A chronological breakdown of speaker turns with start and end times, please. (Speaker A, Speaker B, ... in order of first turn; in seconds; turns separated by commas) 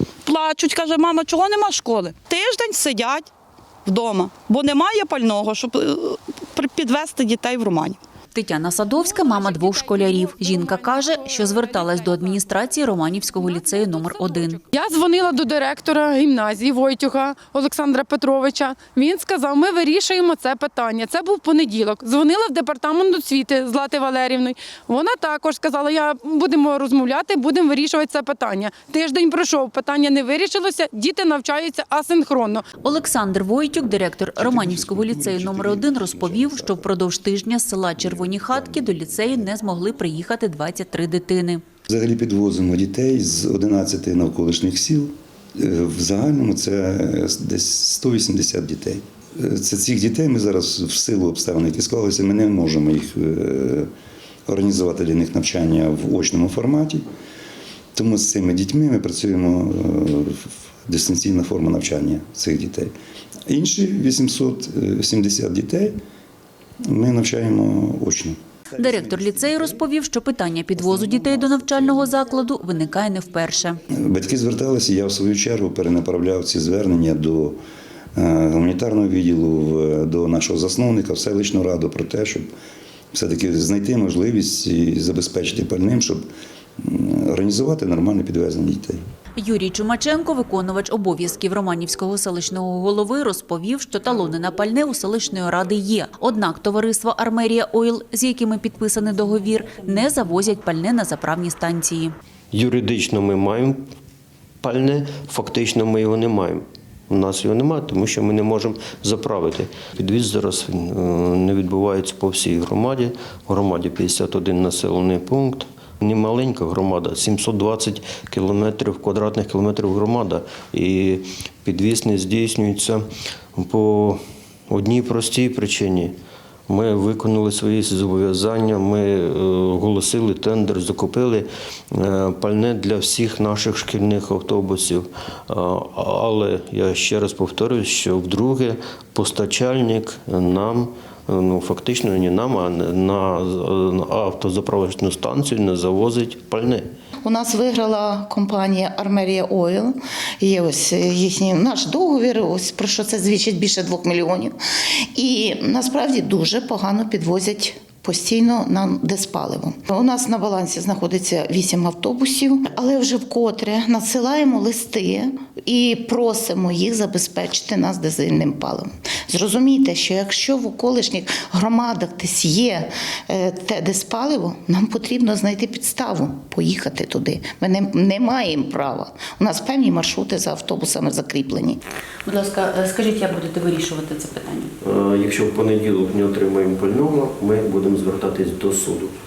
Speaker A: 0.2-3.3, Speaker A: 3.9-8.0, Speaker B: 8.3-14.6, Speaker C: 9.0-12.5, Speaker C: 13.2-32.7, Speaker B: 32.8-41.6, Speaker D: 34.4-36.9, Speaker D: 38.0-39.4, Speaker D: 41.9-53.9, Speaker D: 54.5-57.0, Speaker D: 58.0-62.9, Speaker D: 63.5-66.0, Speaker D: 66.8-69.8, Speaker B: 68.8-73.8, Speaker D: 70.8-72.0, Speaker D: 73.9-77.6, Speaker D: 78.2-82.5, Speaker D: 83.1-86.2, Speaker D: 86.8-89.0, Speaker B: 89.4-102.1, Speaker E: 102.5-103.9, Speaker E: 104.6-123.0, Speaker E: 123.5-126.2, Speaker E: 126.7-146.8, Speaker F: 147.2-154.6, Speaker F: 155.2-181.8, Speaker B: 182.2-184.7, Speaker E: 184.8-189.2